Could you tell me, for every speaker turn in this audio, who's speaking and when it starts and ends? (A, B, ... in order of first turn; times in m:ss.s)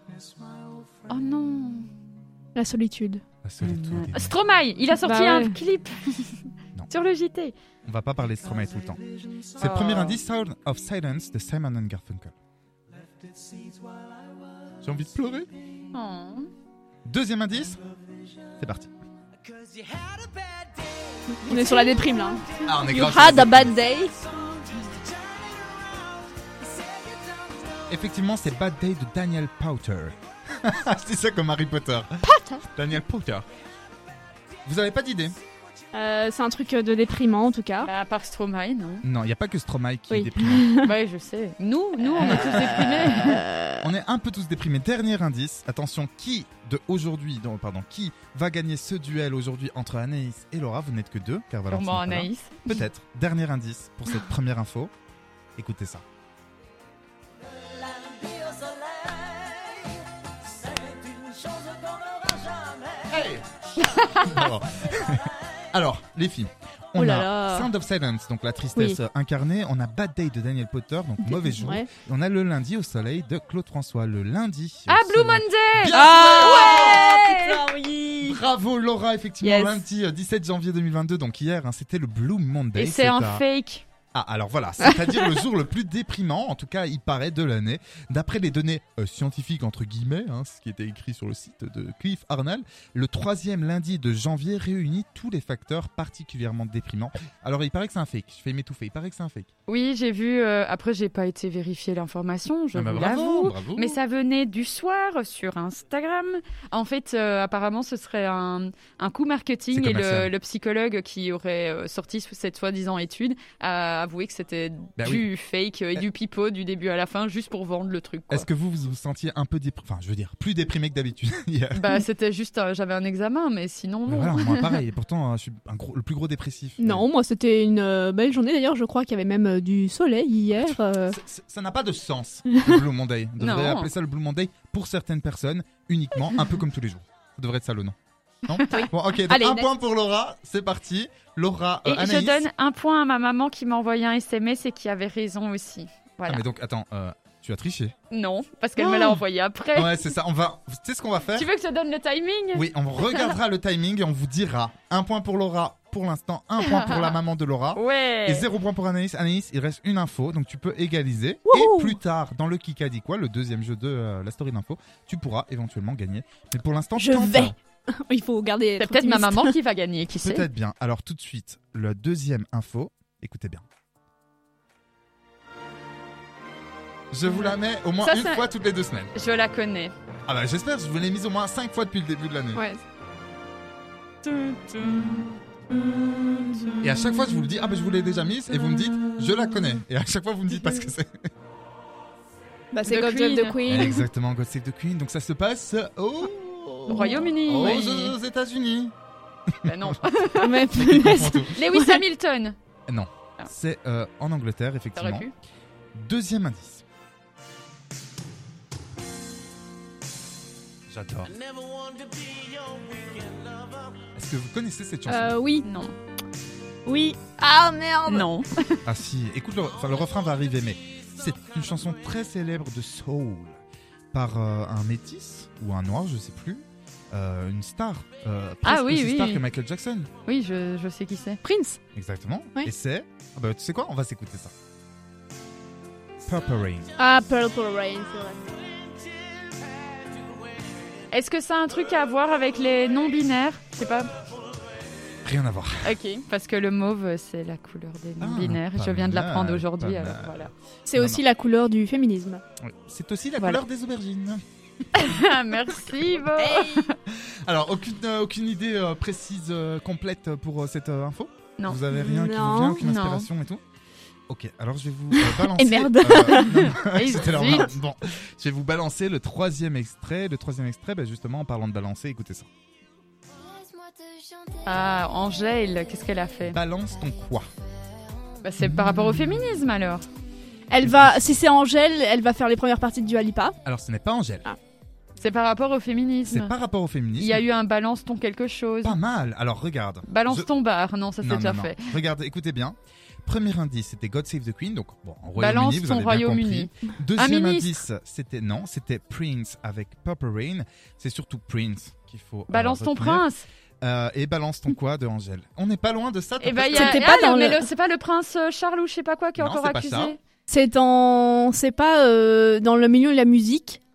0:01.1-0:01.9 A
0:02.6-0:03.2 B
0:03.4-0:04.4 C
0:03.6-0:07.6 A
0:05.0-0:05.6 B
0:07.8-0:09.0 C
0:09.6-0:12.3 C
0:09.6-0:10.2 A
0:14.8-0:15.5 C
0:15.9-0:16.5 A
0:17.0-0:17.8 C
0:18.6-0:18.9 C
0:21.3-0:24.1 B
0:21.5-0:22.0 A
0:22.6-0:23.8 C
0:27.9-0:32.1 C
0:32.3-0:32.6 B
0:32.7-0:33.4 C
0:34.6-0:35.4 C
0:35.9-0:37.9 B
0:37.8-0:39.0 A
0:39.0-0:40.7 C
0:40.1-0:40.9 B
0:40.8-0:43.4 A
0:42.2-0:54.9 C
0:43.3-0:43.8 B
0:51.7-0:52.8 A
0:55.6-0:56.0 C
1:03.1-1:03.4 C
1:03.8-1:04.5 A
1:04.1-1:17.1 C
1:07.0-1:07.7 B
1:11.2-1:11.8 B
1:14.9-1:17.7 A
1:15.9-1:18.4 B
1:18.2-1:23.4 C
1:19.4-1:19.8 B
1:22.8-1:23.8 A
1:24.1-1:39.5 C
1:39.7-1:58.5 A
1:42.7-1:44.0 C
1:49.7-1:50.3 C
1:55.0-1:55.3 C
1:58.3-2:02.0 C
2:01.7-2:04.8 A
2:04.0-2:07.1 C
2:06.8-2:11.2 B
2:10.5-2:22.5 C
2:13.4-2:13.9 A
2:18.7-2:19.7 B
2:21.8-2:26.4 A
2:26.3-2:27.9 C
2:28.1-2:30.0 A
2:28.8-2:29.2 C
2:29.7-2:31.5 C
2:31.3-2:33.4 A
2:32.5-2:47.6 C
2:36.6-2:37.2 A
2:37.8-2:38.4 A
2:41.5-2:41.9 B
2:47.0-2:49.6 B
2:48.8-2:50.5 A
2:50.2-2:53.6 C
2:57.1-2:59.1 C
2:57.2-2:57.5 A
2:58.0-2:58.4 B
2:59.1-2:59.9 A
3:00.3-3:02.6 C
3:02.6-3:02.8 B
3:04.2-3:05.3 A
3:06.4-3:06.8 A
3:06.8-3:11.2 C
3:12.7-3:14.0 B
3:12.8-3:13.9 A
3:13.6-3:18.9 C
3:16.9-3:18.1 A
3:19.6-3:19.9 C
3:19.6-3:20.8 A
3:20.4-3:22.0 B
3:20.7-3:21.6 C
3:21.4-3:22.6 A
3:22.9-3:25.3 C
3:25.0-3:25.3 A
3:25.9-3:26.8 C
3:30.9-3:31.3 C
3:34.1-3:35.4 C
3:35.1-3:35.7 B
3:35.6-3:35.9 A
3:36.9-3:38.3 B
3:38.0-3:38.8 A
3:38.9-3:43.6 C
3:44.1-3:50.1 C
3:48.6-3:49.4 A
3:50.2-3:51.4 A
3:51.4-3:51.8 B
3:51.9-3:54.5 C
3:56.2-3:56.9 C
3:57.0-3:58.4 B
4:01.1-4:04.1 A
4:05.2-4:06.0 C
4:05.8-4:10.5 A
4:08.2-4:11.2 C
4:10.9-4:12.4 B
4:12.6-4:14.4 C
4:14.9-4:16.2 C
4:15.0-4:17.0 A
4:16.4-4:16.8 B
4:17.1-4:23.6 C
4:22.0-4:22.8 B
4:22.8-4:23.3 A
4:24.3-4:32.5 C
4:25.2-4:26.4 B
4:26.1-4:27.8 A
4:34.6-4:36.6 A
4:36.5-4:37.5 C
4:38.4-4:40.1 A
4:38.6-4:39.5 C
4:40.7-4:43.6 B
4:40.8-4:41.2 C
4:43.6-4:44.5 C
4:45.2-4:46.6 A
4:46.3-4:47.4 C
4:47.2-4:49.0 A
4:48.8-4:50.5 C
4:50.1-4:51.8 A
4:51.2-5:03.2 C
4:55.4-4:57.8 A
5:02.5-5:03.4 A
5:03.8-5:07.0 C
5:06.4-5:10.2 A
5:06.7-5:07.7 B
5:09.4-5:10.2 C
5:10.5-5:13.8 B